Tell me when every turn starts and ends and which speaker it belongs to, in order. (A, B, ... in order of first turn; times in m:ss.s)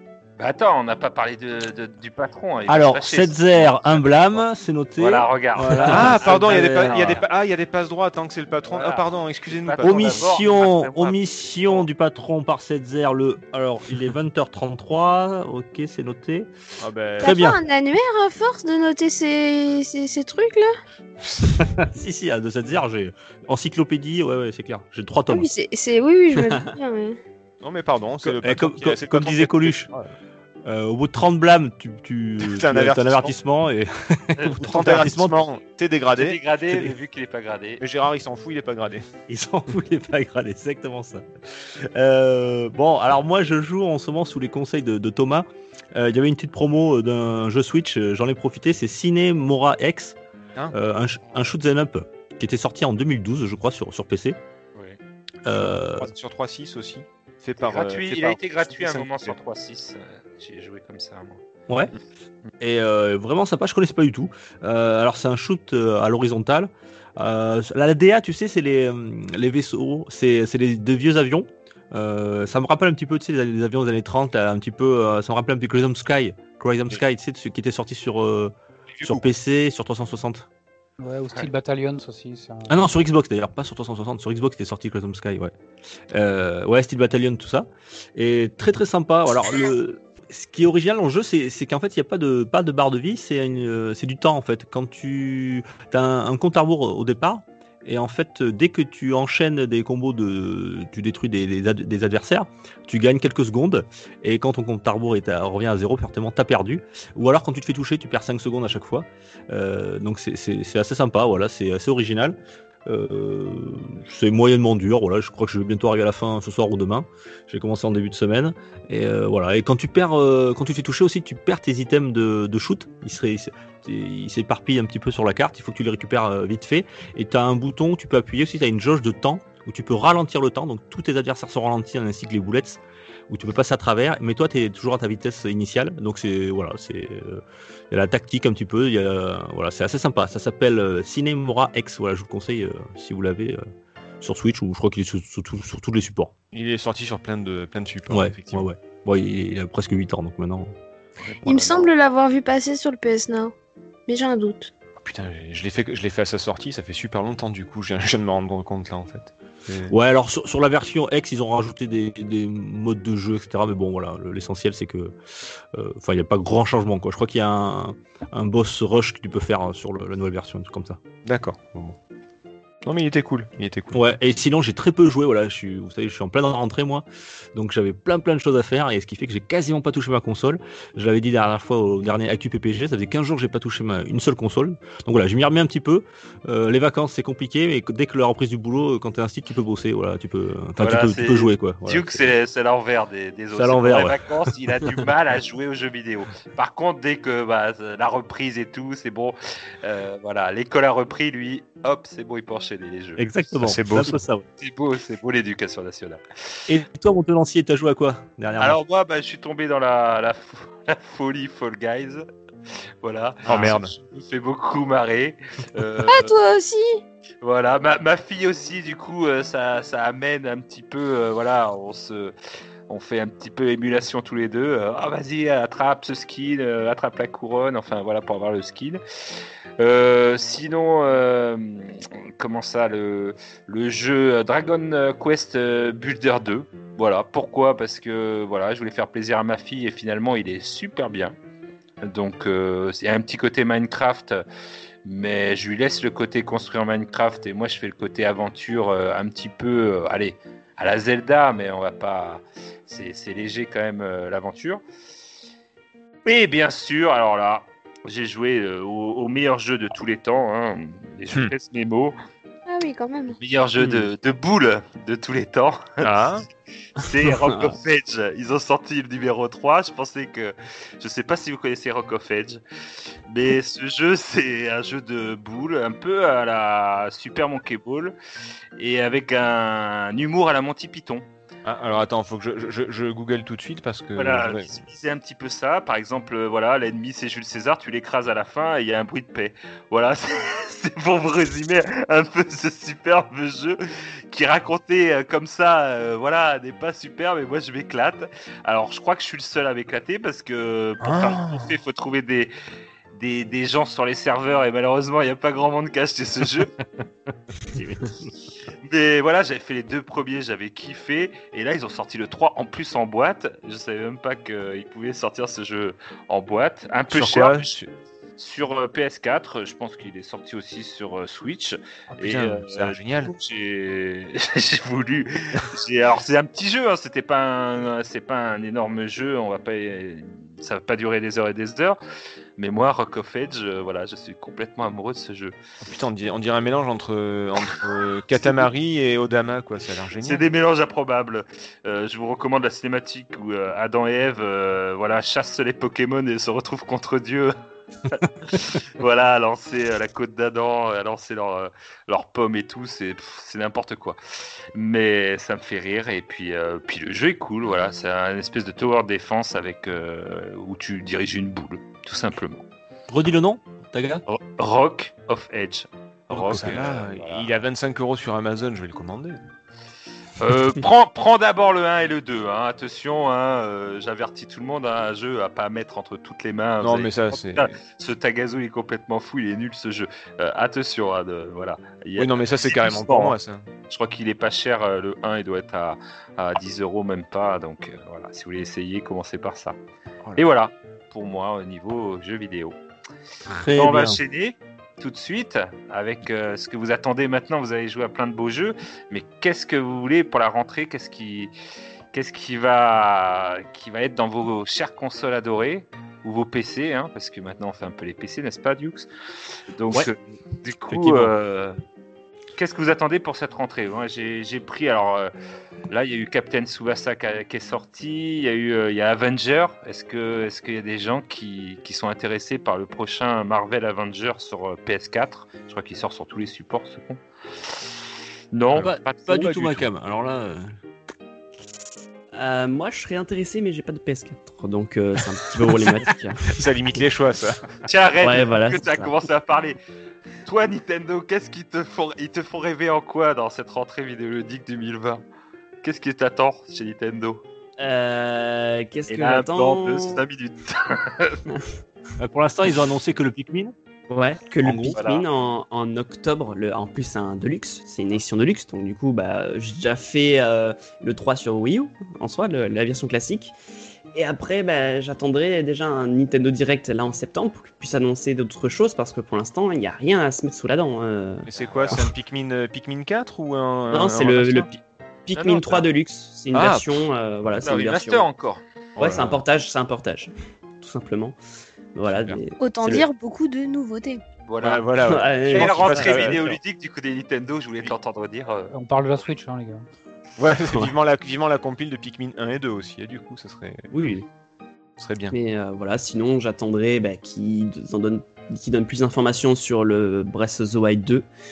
0:00.4-0:04.4 A
0:02.7-0:07.2 B
0:05.0-0:07.2 A
0:05.9-0:10.4 C
0:08.6-0:11.8 A
0:09.8-0:16.5 B
0:16.8-0:17.5 C
0:17.2-0:17.6 B
0:17.2-0:20.7 D
0:21.6-0:25.5 B
0:25.3-0:27.2 D
0:27.6-0:30.1 C
0:28.2-0:29.9 B
0:30.6-0:35.4 B
0:32.4-0:33.3 C
0:34.6-0:36.4 C
0:36.1-0:37.8 A
0:37.8-0:39.1 C
0:39.3-0:50.2 B
0:50.7-0:54.4 B
0:55.4-0:56.1 B
0:56.0-0:59.4 C
0:57.6-1:01.4 A
1:02.6-1:20.5 B
1:19.0-1:19.2 C
1:21.0-1:22.7 E
1:22.7-1:25.5 B
1:26.1-2:23.6 B
2:24.2-2:26.3 B
2:26.5-2:28.6 C
2:28.1-2:30.7 B
2:31.3-2:31.8 C
2:31.4-2:33.5 D
2:34.1-2:34.7 D
2:35.0-2:39.9 C
2:39.9-2:45.2 B
2:45.7-2:51.0 B
2:51.2-2:52.0 C
2:52.8-2:54.0 C
2:53.9-3:12.3 B
3:10.8-3:23.5 A
3:13.5-3:14.3 B
3:23.2-3:24.4 B
3:23.6-3:24.2 C
3:24.6-3:26.2 A
3:26.7-3:28.8 B
3:28.6-3:32.2 A
3:32.7-3:36.3 A
3:33.4-3:33.9 C
3:36.0-3:37.0 D
3:37.4-3:42.3 A
3:42.9-3:49.0 A
3:49.8-4:01.4 A
4:02.0-4:04.4 A
4:05.0-4:14.8 A
4:16.2-4:22.1 A
4:22.7-4:23.4 D
4:23.4-4:26.1 A
4:23.8-4:24.1 F
4:26.0-4:26.4 C
4:27.0-4:38.1 A
4:27.4-4:27.7 F
4:38.8-4:41.2 A
4:41.6-4:44.7 C
4:44.2-5:02.5 A
5:01.1-5:01.6 C
5:03.1-5:06.7 A
5:07.7-5:08.3 B
5:08.8-5:17.7 A
5:17.1-5:17.9 C
5:18.4-5:32.0 A
5:22.1-5:23.3 C
5:32.6-5:35.5 A
5:35.8-5:40.4 C
5:40.2-5:47.5 A
5:48.1-5:54.2 A
5:54.7-6:02.6 A
6:03.1-6:04.2 B
6:04.3-6:07.5 A
6:06.3-6:06.7 B
6:06.5-6:09.4 C
6:10.4-6:23.3 A
6:16.8-6:17.7 C
6:22.2-6:23.6 C
6:23.9-6:29.8 A
6:30.4-6:32.8 A
6:33.5-6:34.2 B
6:33.7-6:41.5 A
6:42.1-6:49.1 A
6:49.7-6:51.8 A
6:50.9-6:51.3 B
6:52.6-6:55.3 A
6:55.9-7:08.0 A
7:08.5-7:09.8 A
7:08.8-7:10.8 B
7:12.3-7:16.5 F
7:16.5-7:17.6 C
7:17.8-7:19.8 A
7:18.2-7:19.2 F
7:20.4-7:25.2 A
7:25.8-7:27.4 A
7:27.8-7:30.2 F
7:29.1-7:31.4 A
7:32.2-7:33.7 B
7:34.1-7:43.5 F
7:34.6-7:35.0 B
7:34.9-7:35.3 A
7:44.1-7:52.0 F
7:51.4-7:54.8 C
7:53.9-7:54.7 F
7:55.3-7:58.3 F
7:55.3-7:55.8 A
7:56.5-7:56.9 C
7:57.6-7:58.6 A
7:59.0-7:59.4 C
7:59.0-8:01.4 F
8:01.9-8:03.1 F
8:02.6-8:04.2 D
8:04.5-8:08.7 A
8:04.6-8:06.6 C
8:05.0-8:06.5 F
8:08.7-8:09.8 E
8:10.4-8:13.9 C
8:13.9-8:14.2 F
8:15.0-8:15.3 C
8:15.3-8:21.3 F